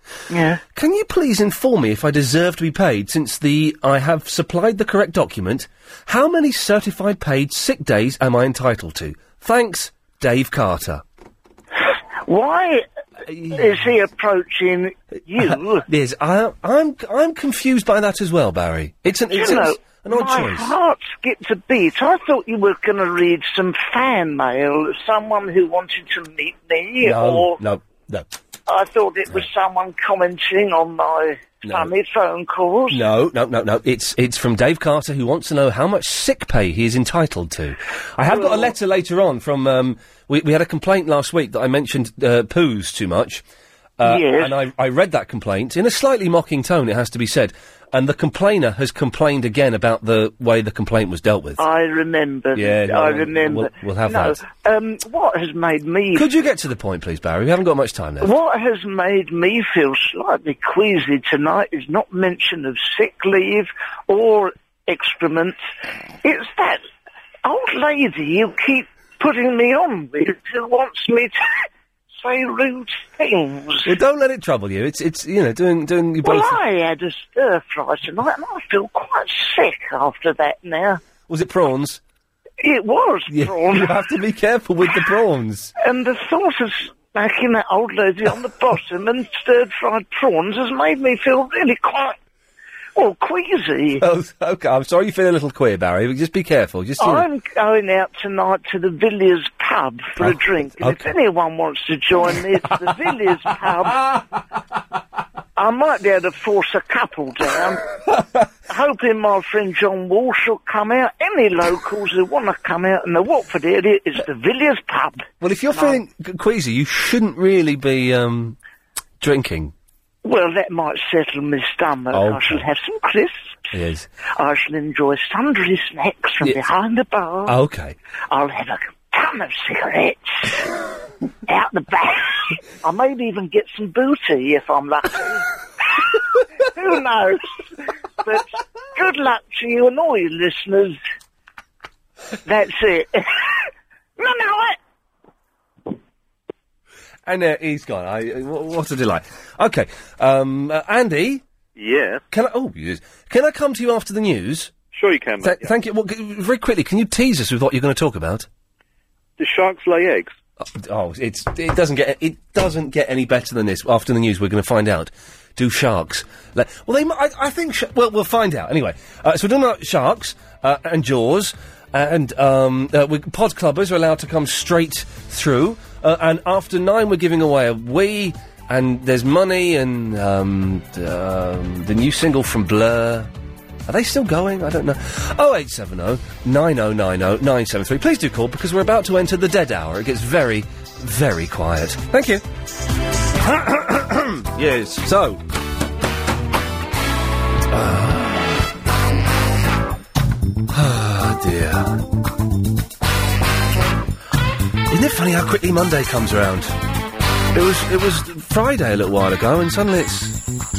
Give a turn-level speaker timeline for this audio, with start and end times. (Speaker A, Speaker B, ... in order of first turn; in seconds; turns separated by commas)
Speaker A: 0.3-0.6, Speaker B: 0.8-11.0, Speaker A: 12.3-12.8, Speaker B: 13.3-13.7, Speaker A: 13.5-15.9, Speaker B: 15.4-20.7, Speaker A: 19.3-27.6, Speaker B: 27.0-28.3, Speaker A: 28.7-33.1, Speaker B: 31.6-31.9, Speaker B: 32.9-43.4, Speaker A: 38.3-38.7, Speaker B: 44.0-51.6, Speaker A: 44.0-44.6, Speaker A: 51.6-56.4, Speaker B: 52.5-54.4, Speaker B: 56.1-58.3, Speaker A: 58.2-65.6, Speaker A: 66.2-66.8, Speaker A: 67.5-73.9, Speaker B: 73.8-76.6, Speaker A: 76.2-81.0, Speaker B: 81.3-82.0, Speaker A: 82.6-84.0, Speaker B: 83.3-85.7, Speaker A: 85.8-92.2, Speaker A: 93.0-94.0, Speaker B: 94.0-97.3, Speaker A: 97.0-104.2, Speaker B: 100.2-101.1, Speaker A: 105.6-107.8, Speaker A: 108.7-116.0, Speaker B: 115.4-118.6, Speaker B: 119.2-119.7, Speaker A: 120.2-123.7, Speaker B: 122.1-122.6, Speaker B: 123.7-124.1, Speaker A: 124.4-127.6, Speaker B: 127.5-128.0, Speaker A: 128.3-130.6, Speaker A: 131.5-135.4, Speaker A: 136.7-137.6, Speaker A: 138.2-141.0, Speaker A: 142.4-143.7, Speaker A: 144.2-144.8, Speaker B: 147.3-151.4, Speaker C: 151.8-152.2, Speaker B: 152.3-154.8, Speaker C: 154.9-155.7, Speaker B: 155.4-158.5, Speaker C: 159.4-160.3, Speaker B: 160.6-183.3, Speaker B: 183.9-192.4, Speaker B: 193.4-195.4, Speaker B: 197.7-198.6, Speaker B: 200.7-202.0, Speaker B: 204.9-206.8, Speaker B: 207.5-210.4